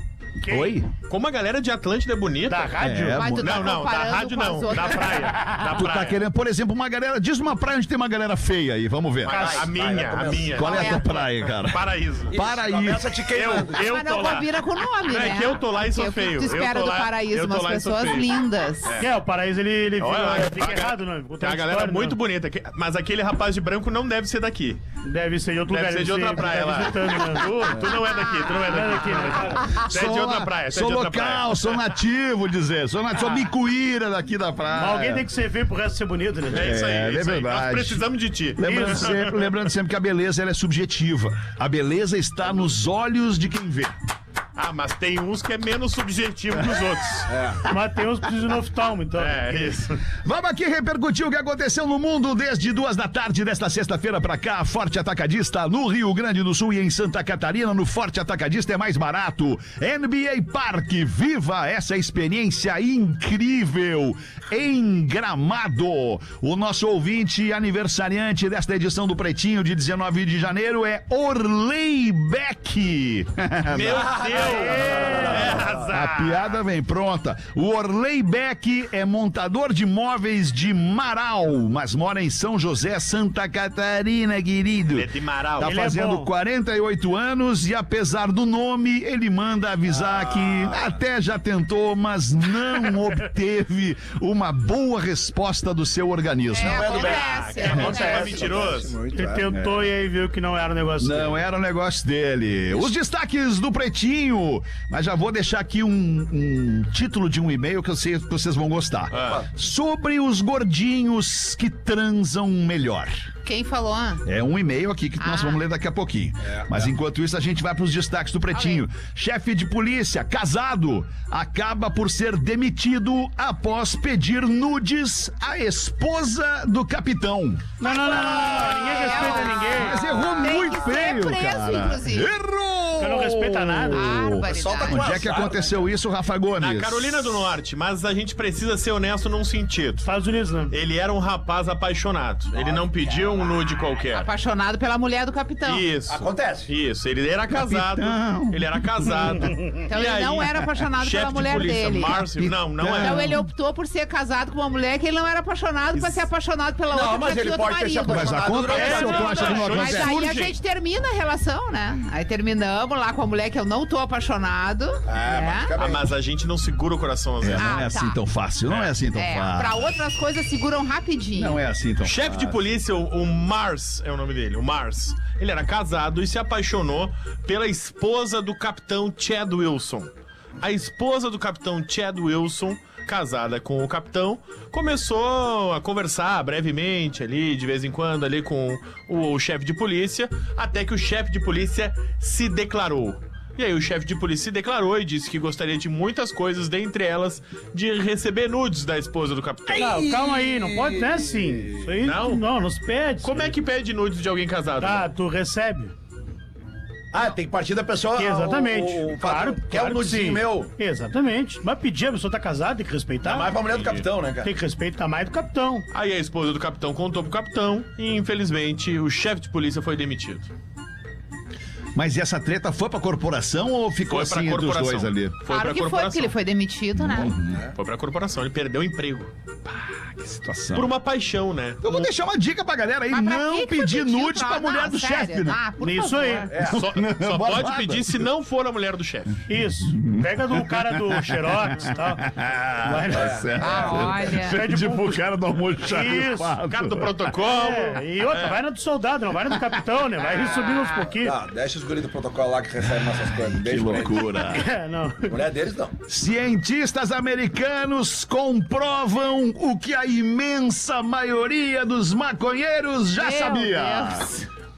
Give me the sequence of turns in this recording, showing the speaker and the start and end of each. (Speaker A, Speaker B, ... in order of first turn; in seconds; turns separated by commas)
Speaker A: 0.4-0.8, Speaker B: 0.5-0.9, Speaker C: 1.0-2.8, Speaker A: 2.5-3.2, Speaker B: 2.8-3.8, Speaker D: 3.1-5.2, Speaker C: 3.4-6.2, Speaker A: 5.0-5.5, Speaker B: 5.6-9.6, Speaker C: 9.2-12.3, Speaker E: 9.3-10.9, Speaker A: 9.3-9.6, Speaker B: 10.5-13.7, Speaker D: 10.6-11.2, Speaker E: 12.3-13.8, Speaker C: 13.3-14.5, Speaker D: 13.8-19.0, Speaker C: 15.0-18.3, Speaker A: 19.0-22.2, Speaker C: 20.0-24.8, Speaker A: 25.0-27.8, Speaker C: 25.7-31.9, Speaker A: 28.6-29.8, Speaker B: 29.8-35.3, Speaker A: 34.7-36.8, Speaker B: 36.5-38.0, Speaker C: 36.5-39.6, Speaker B: 38.6-44.0, Speaker A: 38.7-39.1, Speaker C: 44.5-47.3, Speaker E: 47.3-47.6, Speaker A: 47.6-49.4, Speaker C: 49.2-50.0, Speaker B: 50.2-74.4, Speaker C: 73.7-76.5, Speaker E: 73.9-75.9, Speaker A: 74.3-75.7, Speaker B: 75.1-97.0, Speaker C: 84.9-85.7, Speaker A: 85.6-86.3, Speaker E: 89.9-90.9, Speaker D: 96.5-98.6, Speaker E: 96.6-99.6, Speaker C: 96.9-99.0, Speaker A: 99.1-101.4, Speaker B: 99.5-99.8, Speaker B: 101.0-113.3, Speaker C: 109.1-109.4, Speaker E: 109.1-109.5, Speaker D: 113.4-114.2, Speaker B: 114.2-127.7, Speaker D: 115.2-115.6, Speaker E: 116.4-116.9, Speaker D: 118.5-118.8, Speaker A: 127.8-130.3, Speaker D: 127.8-132.3, Speaker B: 129.6-137.4, Speaker A: 133.0-134.1, Speaker D: 133.9-135.0, Speaker E: 134.5-135.9, Speaker C: 136.6-140.1, Speaker A: 140.0-140.7, Speaker C: 140.7-144.3, Speaker E: 142.5-143.9, Speaker D: 144.1-145.8, Speaker C: 145.6-153.3, Speaker E: 146.1-146.7, Speaker B: 147.5-148.8, Speaker D: 149.8-152.2, Speaker B: 152.1-153.5, Speaker D: 153.0-165.7, Speaker C: 155.9-156.2, Speaker E: 156.9-159.7, Speaker B: 158.0-160.1, Speaker C: 158.7-160.6, Speaker E: 165.1-166.1, Speaker C: 165.8-167.8, Speaker B: 167.4-169.9, Speaker D: 167.6-168.2, Speaker D: 169.1-171.6, Speaker B: 171.3-172.6, Speaker C: 172.0-199.9, Speaker E: 199.7-201.9, Speaker A: 199.8-203.5, Speaker C: 202.0-202.4, Speaker C: 203.2-205.1, Speaker A: 204.8-205.9, Speaker E: 207.1-210.7, Speaker A: 208.2-213.5, Speaker E: 213.2-214.5, Speaker C: 213.7-214.1, Speaker A: 214.4-215.8, Speaker C: 215.9-220.5, Speaker B: 221.9-225.4, Speaker C: 224.1-226.3, Speaker D: 225.5-227.3, Speaker B: 227.0-227.6, Speaker C: 227.7-231.8, Speaker B: 230.4-230.9, Speaker B: 231.8-235.6, Speaker D: 233.1-236.5, Speaker A: 235.8-236.6, Speaker E: 236.5-236.8, Speaker B: 236.7-238.3, Speaker C: 236.7-239.4, Speaker A: 239.5-242.3, Speaker B: 239.8-247.3, Speaker A: 242.8-243.5, Speaker E: 243.1-243.8, Speaker D: 243.6-244.6, Speaker A: 244.4-245.2, Speaker A: 245.8-246.6, Speaker C: 246.7-248.6, Speaker A: 247.4-251.3, Speaker E: 251.2-254.3, Speaker B: 253.5-254.7, Speaker A: 254.4-255.4, Speaker E: 255.3-255.9, Speaker B: 256.1-264.2, Speaker D: 263.1-264.5